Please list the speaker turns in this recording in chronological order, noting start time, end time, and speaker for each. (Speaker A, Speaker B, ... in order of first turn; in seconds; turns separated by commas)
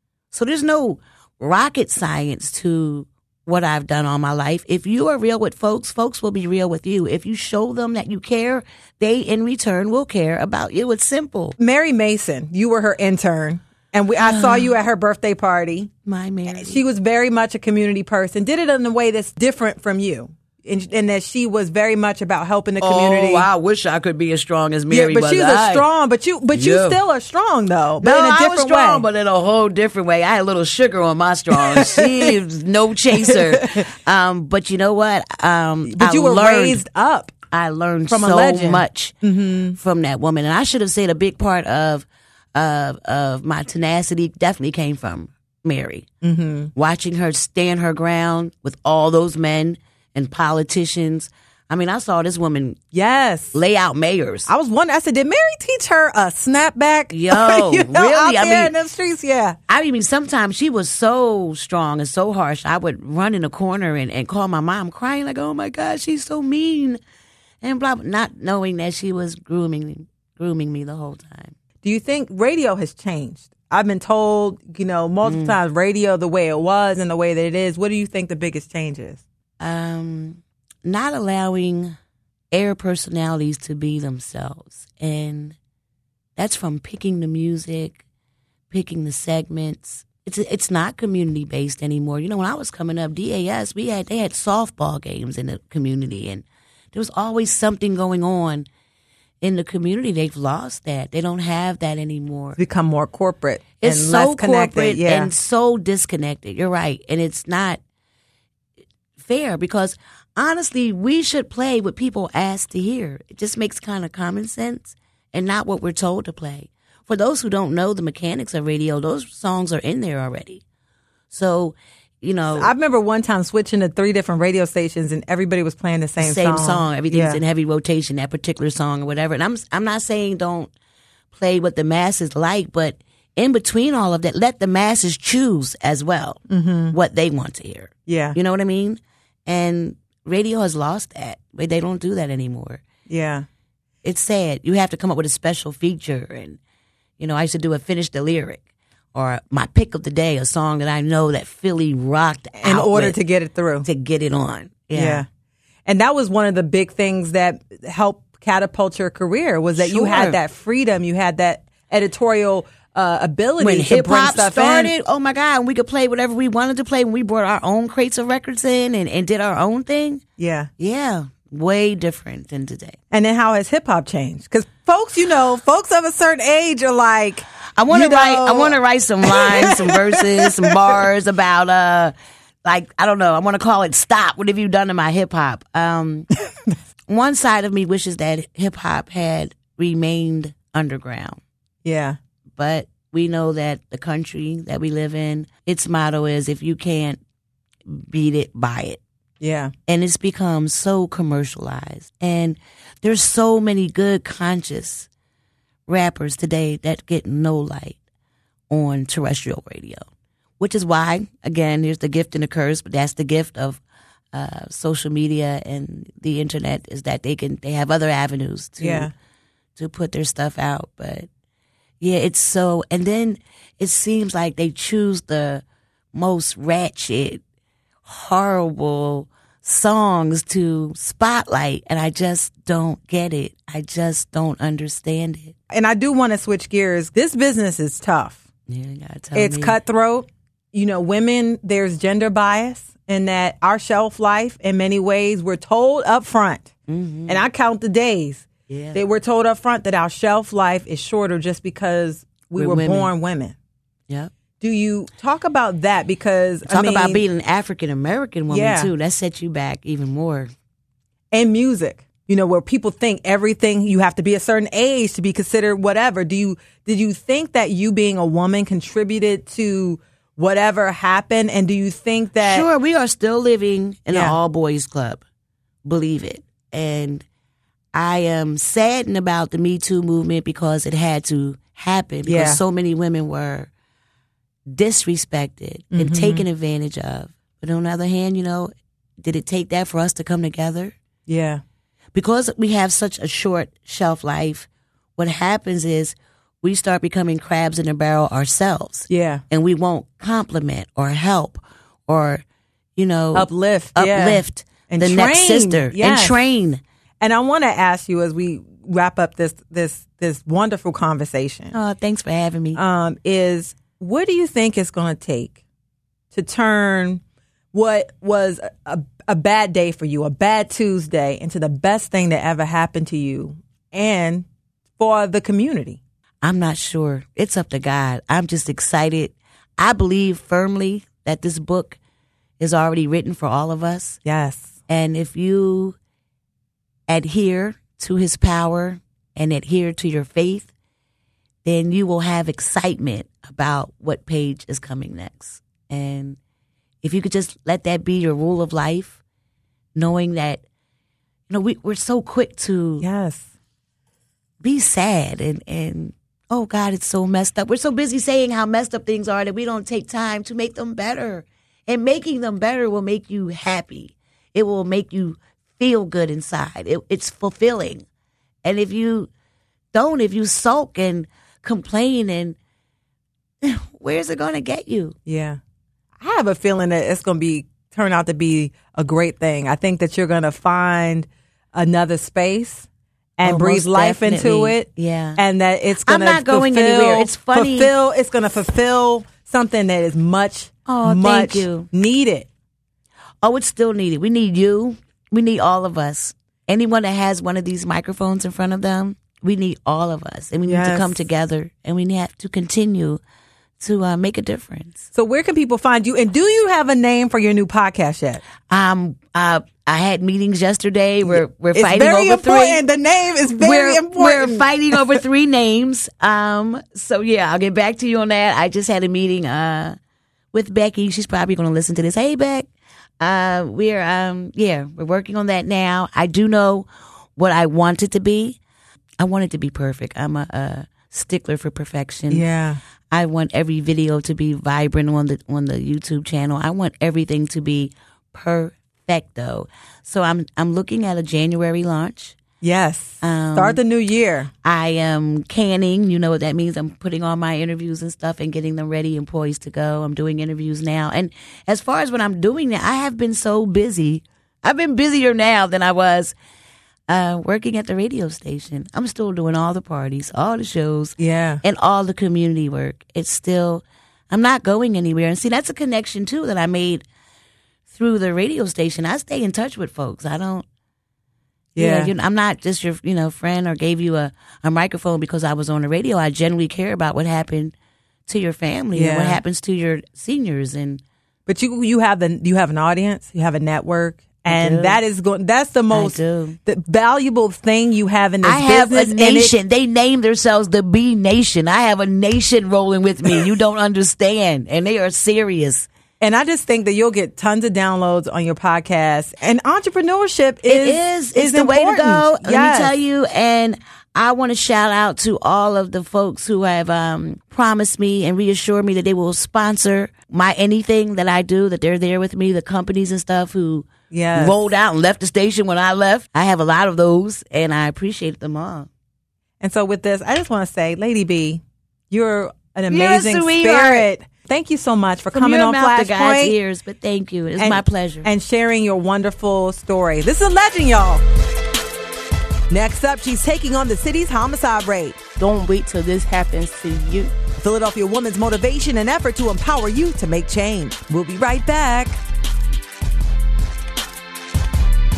Speaker A: 0.3-11.6, Speaker B: 11.6-15.9, Speaker A: 14.2-14.7, Speaker A: 16.0-16.8, Speaker B: 16.5-23.5, Speaker A: 22.8-25.9, Speaker B: 24.9-29.1, Speaker A: 26.5-27.0, Speaker A: 28.0-36.8, Speaker B: 31.6-32.3, Speaker B: 33.2-33.8, Speaker B: 35.9-37.4, Speaker A: 37.5-39.1, Speaker B: 38.1-39.8, Speaker A: 39.8-46.1, Speaker B: 46.2-46.7, Speaker A: 46.7-52.8, Speaker B: 52.9-53.6, Speaker A: 53.5-54.5, Speaker B: 54.5-59.6, Speaker A: 57.1-58.7, Speaker A: 59.7-67.0, Speaker A: 67.6-71.5, Speaker B: 71.8-79.2, Speaker A: 75.2-75.5, Speaker A: 79.6-82.0, Speaker A: 82.5-85.5, Speaker A: 86.4-88.0, Speaker A: 88.7-98.7, Speaker A: 99.4-102.6, Speaker B: 102.6-105.3, Speaker A: 103.8-107.8, Speaker A: 109.2-120.6, Speaker A: 121.3-122.7, Speaker B: 122.5-127.4, Speaker A: 126.2-130.7, Speaker A: 131.3-136.4, Speaker B: 136.5-136.9, Speaker A: 136.9-142.8, Speaker B: 138.1-138.4, Speaker B: 143.1-143.5, Speaker A: 144.0-146.6, Speaker A: 147.2-148.6, Speaker A: 149.1-153.2, Speaker B: 152.6-153.9, Speaker A: 153.8-155.2, Speaker B: 154.9-155.2, Speaker B: 155.8-164.9, Speaker A: 159.8-160.4, Speaker A: 163.6-170.2, Speaker B: 170.4-170.7, Speaker A: 170.8-173.0, Speaker B: 173.1-181.0, Speaker A: 177.8-182.1, Speaker A: 182.6-186.3, Speaker A: 187.1-191.4, Speaker B: 191.8-192.2, Speaker A: 192.6-197.2, Speaker A: 197.9-199.0, Speaker B: 199.4-199.7, Speaker A: 199.9-205.1, Speaker A: 205.9-208.0, Speaker A: 208.7-210.0, Speaker A: 210.6-213.8, Speaker A: 214.3-219.1, Speaker B: 218.8-219.1, Speaker A: 219.8-221.3, Speaker A: 222.0-227.4, Speaker A: 228.0-235.5, Speaker B: 235.7-238.4, Speaker A: 238.7-239.8, Speaker B: 239.3-246.7, Speaker A: 246.9-247.4, Speaker B: 247.3-253.5, Speaker A: 248.7-249.0, Speaker A: 252.6-253.1, Speaker B: 254.6-257.2, Speaker A: 256.7-260.5, Speaker B: 258.5-258.9, Speaker B: 261.3-272.7, Speaker A: 272.4-275.2, Speaker B: 274.1-274.4, Speaker A: 275.8-277.2, Speaker A: 277.9-283.7, Speaker B: 282.2-282.6, Speaker A: 284.7-290.9, Speaker B: 285.9-286.4, Speaker B: 291.3-291.6, Speaker A: 292.1-302.4, Speaker B: 299.1-299.4, Speaker A: 302.9-306.8, Speaker B: 303.3-306.4, Speaker B: 307.2-311.7, Speaker A: 311.7-312.8, Speaker B: 312.7-315.6, Speaker B: 316.3-317.2, Speaker B: 317.7-324.4, Speaker B: 325.0-326.0, Speaker A: 326.4-332.0, Speaker A: 332.6-334.2, Speaker B: 334.2-334.8, Speaker A: 334.9-335.9, Speaker A: 337.1-340.7, Speaker A: 341.6-346.4, Speaker A: 347.0-349.2, Speaker A: 349.9-350.6, Speaker A: 351.5-353.0, Speaker B: 353.0-353.5, Speaker A: 354.6-368.0, Speaker A: 368.6-369.3, Speaker A: 369.9-372.6, Speaker A: 373.6-375.1, Speaker B: 375.2-375.6, Speaker B: 376.2-382.9, Speaker B: 383.4-392.5, Speaker A: 383.4-385.4, Speaker A: 386.0-387.9, Speaker A: 390.8-391.9, Speaker A: 393.4-403.2, Speaker B: 400.6-401.2, Speaker A: 403.8-405.1, Speaker B: 405.1-408.4, Speaker A: 408.7-412.8, Speaker B: 411.3-415.1, Speaker A: 413.5-420.0, Speaker A: 420.5-422.7, Speaker A: 423.2-428.6, Speaker A: 429.2-432.5, Speaker B: 432.3-432.8, Speaker A: 433.1-442.4, Speaker B: 442.6-444.5, Speaker A: 443.2-443.8, Speaker A: 444.6-456.3, Speaker A: 457.1-467.0, Speaker B: 461.2-461.6, Speaker A: 467.9-470.6, Speaker B: 471.8-472.1, Speaker A: 471.8-477.7, Speaker A: 478.3-481.0, Speaker B: 478.9-479.4, Speaker B: 481.5-489.5, Speaker A: 484.5-485.0, Speaker A: 485.9-486.6, Speaker A: 488.4-495.9, Speaker B: 496.2-502.9, Speaker A: 500.6-518.9, Speaker B: 514.1-514.6, Speaker B: 519.6-526.5, Speaker A: 522.9-524.1, Speaker A: 525.3-528.3, Speaker B: 527.6-531.2, Speaker B: 532.7-535.2, Speaker C: 535.4-537.3, Speaker B: 537.6-542.2